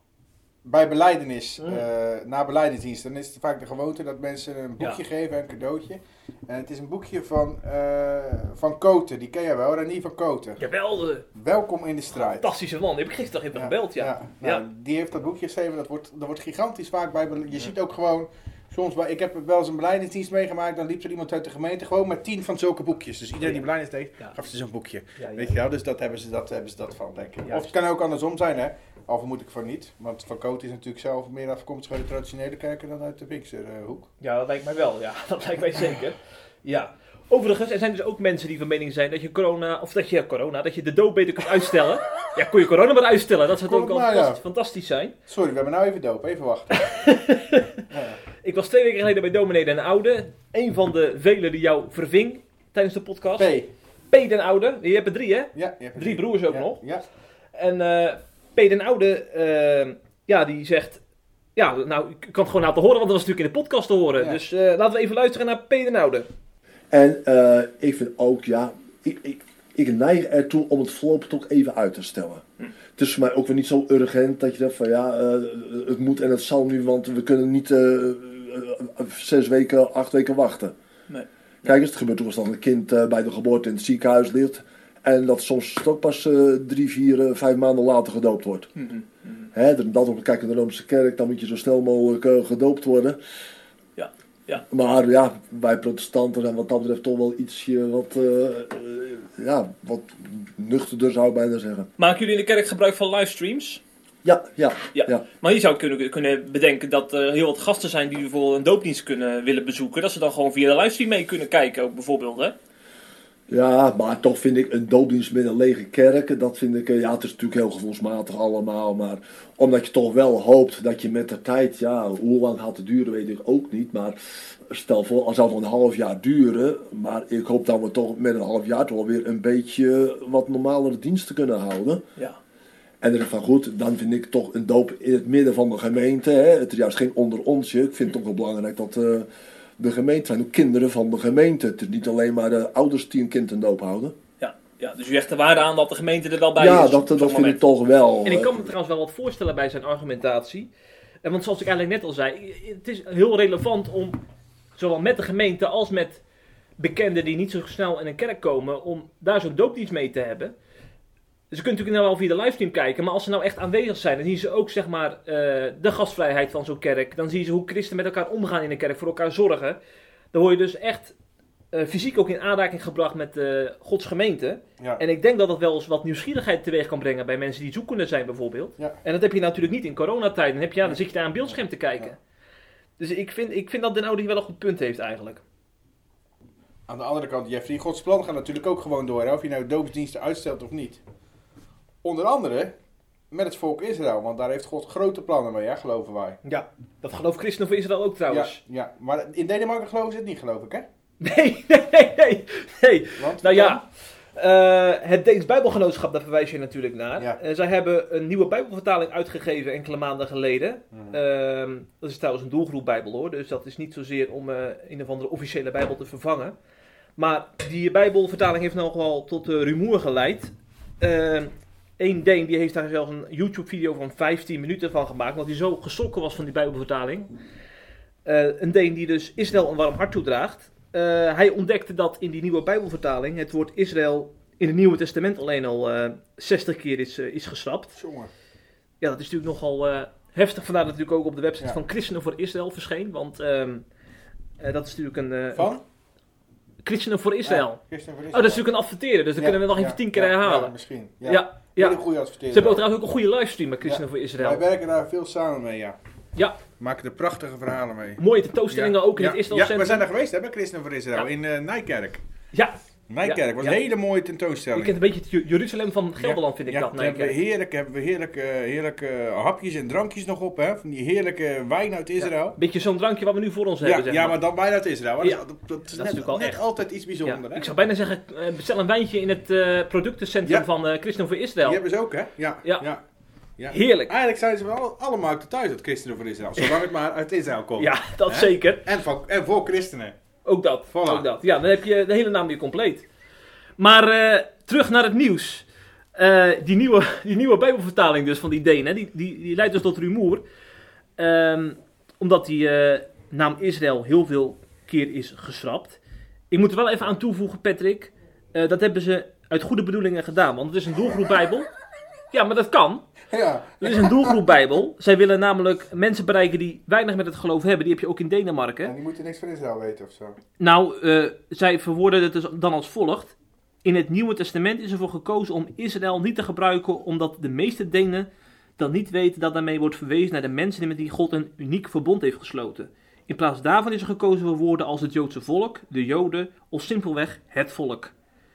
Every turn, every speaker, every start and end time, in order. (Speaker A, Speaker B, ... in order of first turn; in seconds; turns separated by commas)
Speaker A: 0.6-10.6, Speaker B: 10.6-11.3, Speaker A: 11.3-12.5, Speaker B: 12.4-14.6, Speaker A: 13.5-34.1, Speaker B: 25.2-25.6, Speaker B: 27.4-27.7, Speaker B: 34.2-45.1, Speaker A: 43.6-44.4, Speaker A: 45.3-46.7, Speaker B: 46.8-47.8, Speaker A: 47.9-48.2, Speaker B: 48.4-53.5, Speaker A: 53.4-53.7, Speaker B: 54.1-56.9, Speaker A: 55.5-57.0, Speaker B: 57.5-61.0, Speaker B: 61.6-66.3, Speaker C: 66.9-72.5, Speaker C: 73.0-80.8, Speaker C: 81.6-88.7, Speaker B: 88.8-89.5, Speaker C: 89.5-93.2, Speaker B: 94.0-94.6, Speaker C: 94.7-101.9, Speaker B: 102.0-103.8, Speaker C: 104.2-105.3, Speaker B: 104.9-112.5, Speaker C: 113.5-132.0, Speaker C: 133.0-139.3, Speaker C: 139.8-144.2, Speaker B: 144.4-147.6, Speaker C: 146.6-148.7, Speaker B: 148.2-150.7, Speaker B: 151.2-154.2, Speaker B: 154.8-156.2, Speaker B: 156.8-160.5, Speaker B: 161.5-169.8, Speaker B: 170.3-171.1, Speaker B: 171.7-182.2, Speaker A: 180.8-182.1, Speaker B: 183.0-185.4, Speaker A: 186.9-191.0, Speaker A: 192.0-192.7, Speaker A: 193.3-196.4, Speaker B: 196.4-198.6, Speaker A: 198.3-200.9, Speaker B: 201.2-216.5, Speaker A: 203.2-203.8, Speaker B: 217.2-227.3, Speaker B: 228.2-238.0, Speaker A: 237.9-238.3, Speaker B: 239.0-243.8, Speaker B: 244.6-245.8, Speaker A: 245.5-245.8, Speaker B: 246.8-247.8, Speaker A: 247.4-248.7, Speaker B: 248.3-250.7, Speaker A: 249.4-252.8, Speaker B: 251.2-254.6, Speaker A: 253.8-256.0, Speaker A: 256.8-262.2, Speaker B: 258.2-260.1, Speaker B: 262.5-263.8, Speaker A: 263.1-265.0, Speaker B: 264.8-267.4, Speaker A: 266.2-272.6, Speaker B: 272.2-274.4, Speaker A: 273.8-277.7, Speaker B: 275.9-276.6, Speaker B: 277.2-281.8, Speaker A: 281.6-283.0, Speaker A: 283.6-290.2, Speaker B: 283.7-284.1, Speaker B: 287.8-288.9, Speaker B: 290.5-293.1, Speaker A: 290.9-291.3, Speaker B: 293.8-300.4, Speaker B: 301.2-306.0, Speaker B: 306.5-311.7, Speaker B: 312.3-313.1, Speaker A: 313.3-314.4, Speaker B: 313.8-318.9, Speaker A: 318.9-320.4, Speaker B: 320.6-328.3, Speaker B: 328.8-338.1